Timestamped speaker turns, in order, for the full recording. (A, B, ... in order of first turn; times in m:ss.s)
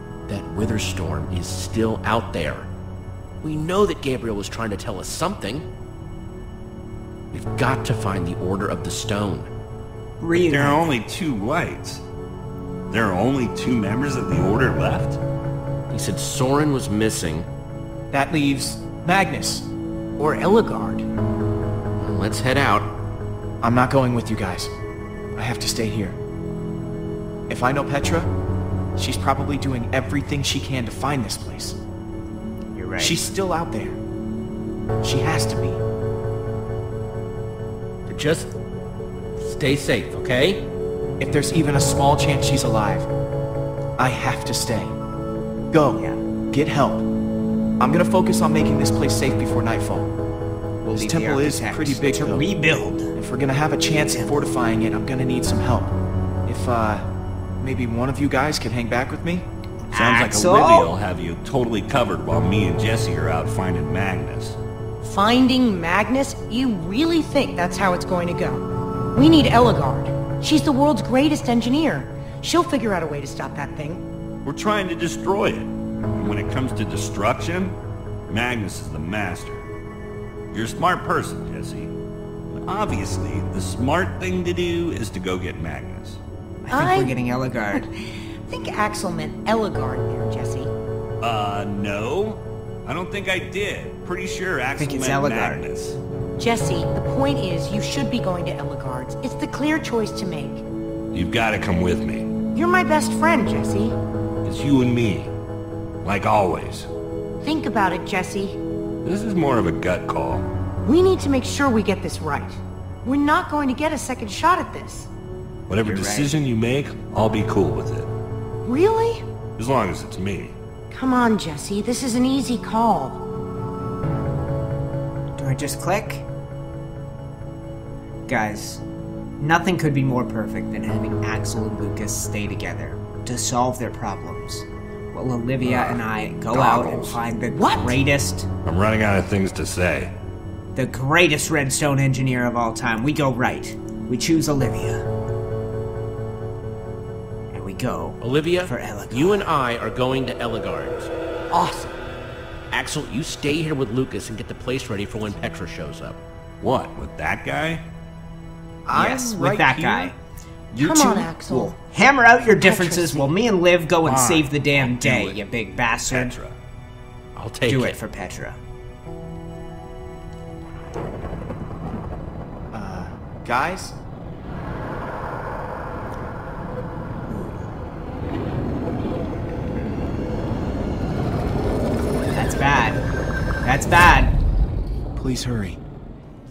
0:00.3-0:02.7 A
0:03.4-0:05.7 A
0:07.3-0:09.5 A
0:10.2-0:10.9 B
0:10.3-0:12.0 C
0:12.9-0:15.2 C
0:15.9-0:17.5 A
0:18.1-0:19.7 D
0:20.2-0:21.0 E
0:22.0-0:22.9 A
0:23.6-0:24.7 D
0:25.4-0:26.2 D
0:27.5-0:28.3 D
0:29.0-0:31.8 D
0:32.7-0:33.3 B
0:33.0-0:34.0 D
0:35.0-0:35.8 D
0:38.1-0:38.5 A
0:39.4-0:40.7 A
0:41.2-0:43.1 D
0:44.0-0:44.9 D
0:45.7-0:47.1 D
0:45.9-0:46.2 B
0:47.8-0:50.1 D
0:50.8-0:53.1 B
0:50.8-0:52.5 D
0:53.1-0:55.9 D
0:53.9-0:54.4 B
0:56.5-0:57.0 D
0:57.6-0:59.5 D
0:59.9-1:00.9 B
0:59.9-1:04.6 C
1:05.0-1:14.0 E
1:14.4-1:17.8 C
1:18.3-1:19.7 C
1:20.5-1:21.9 C
1:22.6-1:26.2 C
1:26.6-1:27.9 B
1:26.7-1:30.7 E
1:31.2-1:36.0 C
1:34.8-1:35.6 B
1:36.4-1:40.6 E
1:41.1-1:42.3 C
1:42.5-1:44.0 E
1:44.4-1:45.3 C
1:46.0-1:46.9 C
1:47.4-1:48.6 E
1:49.0-1:50.5 C
1:50.8-1:55.1 E
1:55.7-1:58.1 C
1:55.8-1:56.4 B
1:58.6-1:59.2 E
1:59.6-2:00.5 C
2:00.9-2:03.2 E
2:05.4-2:06.3 B
2:08.3-2:08.8 B
2:09.4-2:18.5 B
2:15.6-2:17.2 C
2:17.4-2:18.0 E
2:18.6-2:20.1 C
2:20.7-2:25.1 B
2:27.5-2:29.5 B
2:28.2-2:31.1 A
2:31.5-2:31.9 E
2:32.7-2:36.2 A
2:36.6-2:37.8 C
2:38.8-2:40.1 D
2:38.9-2:40.2 B
2:40.7-2:46.4 B
2:40.7-2:41.8 E
2:42.6-2:43.3 E
2:44.0-2:45.4 C
2:46.0-2:46.6 C
2:47.3-2:48.0 A
2:47.6-2:48.6 B
2:52.7-2:54.0 D
2:57.3-2:57.7 B
2:59.7-3:00.2 B
3:02.3-3:03.0 B
3:03.6-3:04.4 B
3:05.2-3:05.8 D